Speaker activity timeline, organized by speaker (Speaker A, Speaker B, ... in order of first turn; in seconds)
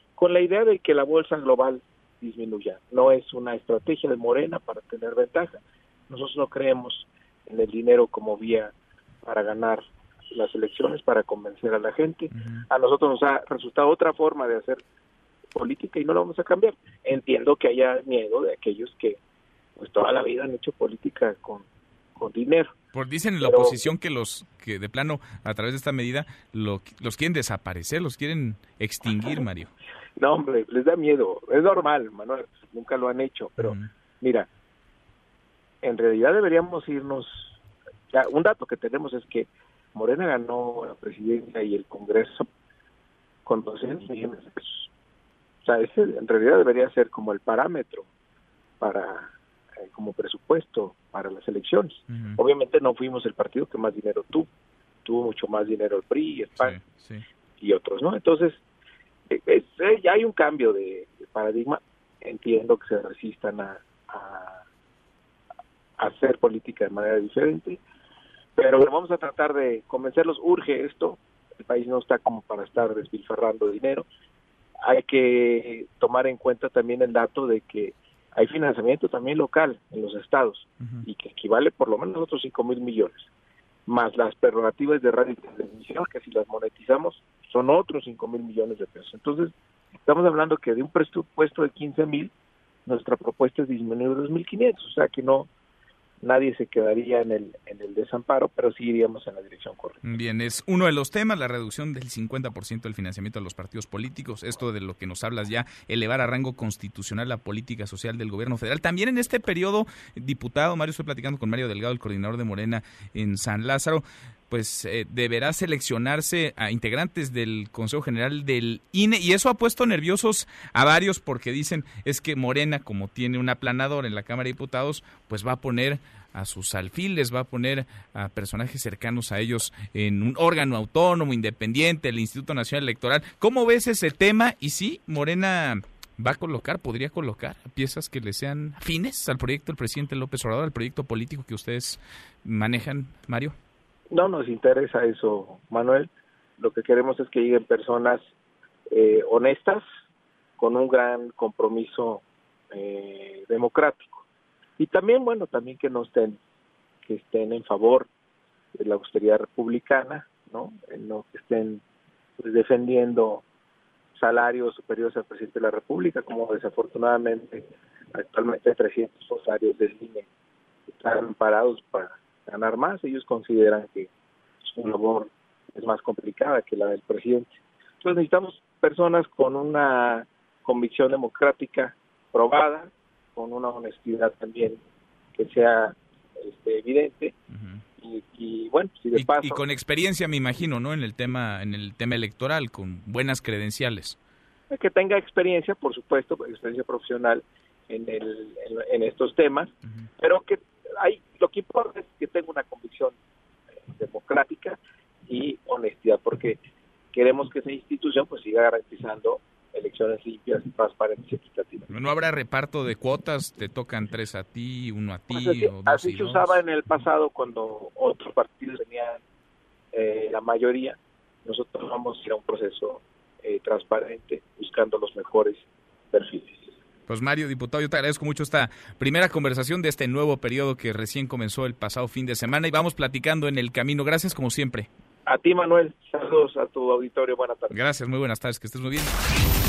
Speaker A: 0.2-14.8, 15.5-19.2, 19.8-22.7, 23.4-23.9, 30.2-34.5, 35.8-37.5, 38.1-42.5, 43.4-44.9, 45.6-48.1, 48.8-54.5, 55.0-56.8, 57.6-58.6, 59.3-64.6, 66.0-67.8, 68.6-74.1, 74.8-83.3, 83.9-89.5, 90.0-92.3, 92.8-95.5, 96.2-100.0, 144.1-148.2, 148.9-149.8, 150.6-154.2, 154.8-156.4, 157.1-158.1, 158.8-161.8, 162.4-163.4, 164.1-170.3, 170.9-174.1, 174.6-184.8, 185.3-187.3, 188.0-189.6, 194.7-203.2, 203.9-206.6, 207.1-211.9, 215.3-219.2, 219.9-226.6, 235.2-237.8
Speaker B: 12.3-12.7, 22.9-29.7, 33.6-33.9, 52.1-52.4, 56.6-57.2, 80.8-81.1, 100.0-143.6, 187.5-187.8, 189.1-194.2, 211.9-216.6, 227.1-234.9, 237.7-239.2